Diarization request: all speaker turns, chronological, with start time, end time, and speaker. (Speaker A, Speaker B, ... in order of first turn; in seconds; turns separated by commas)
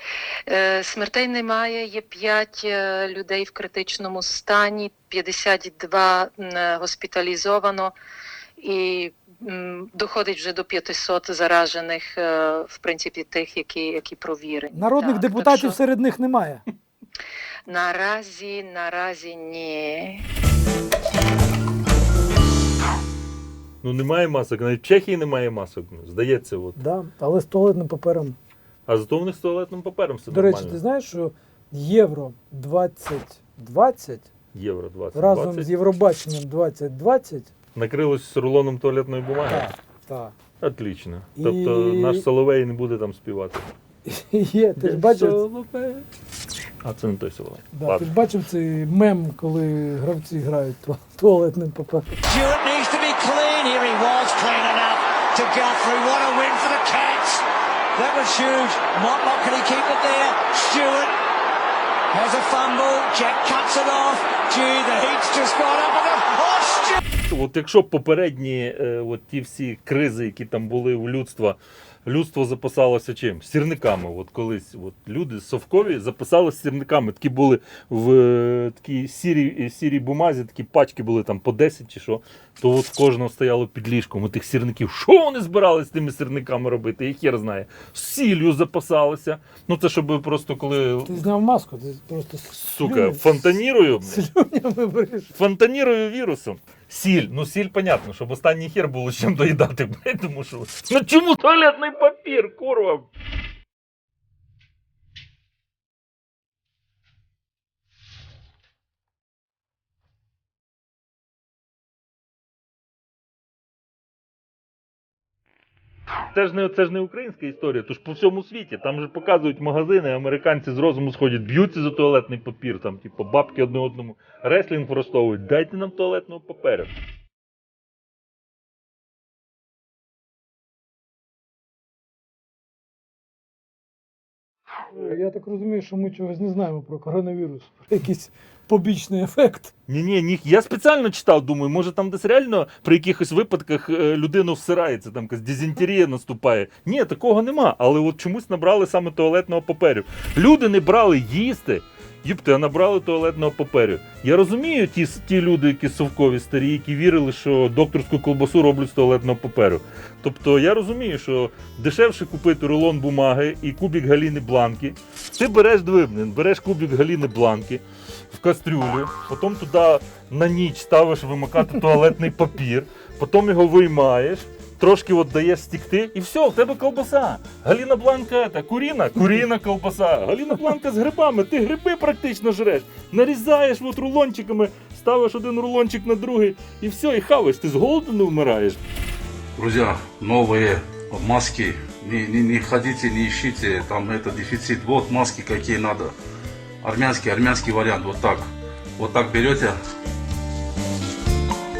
Speaker A: 0.5-7.9, Speaker A: 8.6-15.8, Speaker B: 14.7-16.6, Speaker A: 17.7-20.3, Speaker C: 23.8-26.8, Speaker B: 26.8-28.4, Speaker C: 28.9-30.8, Speaker B: 30.3-34.3, Speaker C: 34.5-35.7, Speaker B: 35.1-37.5, Speaker C: 37.8-39.7, Speaker B: 39.5-40.3, Speaker C: 40.6-43.7, Speaker B: 41.4-42.3, Speaker B: 44.0-45.4, Speaker C: 44.8-46.1, Speaker C: 46.8-48.1, Speaker B: 47.7-52.2, Speaker D: 52.3-61.2, Speaker D: 62.1-67.0, Speaker C: 67.3-91.2, Speaker B: 91.0-95.3, Speaker C: 92.7-94.2, Speaker C: 95.4-103.1, Speaker C: 116.3-126.9, Speaker B: 134.9-139.7, Speaker C: 139.9-188.8, Speaker E: 189.6-196.1, Speaker E: 196.8-199.8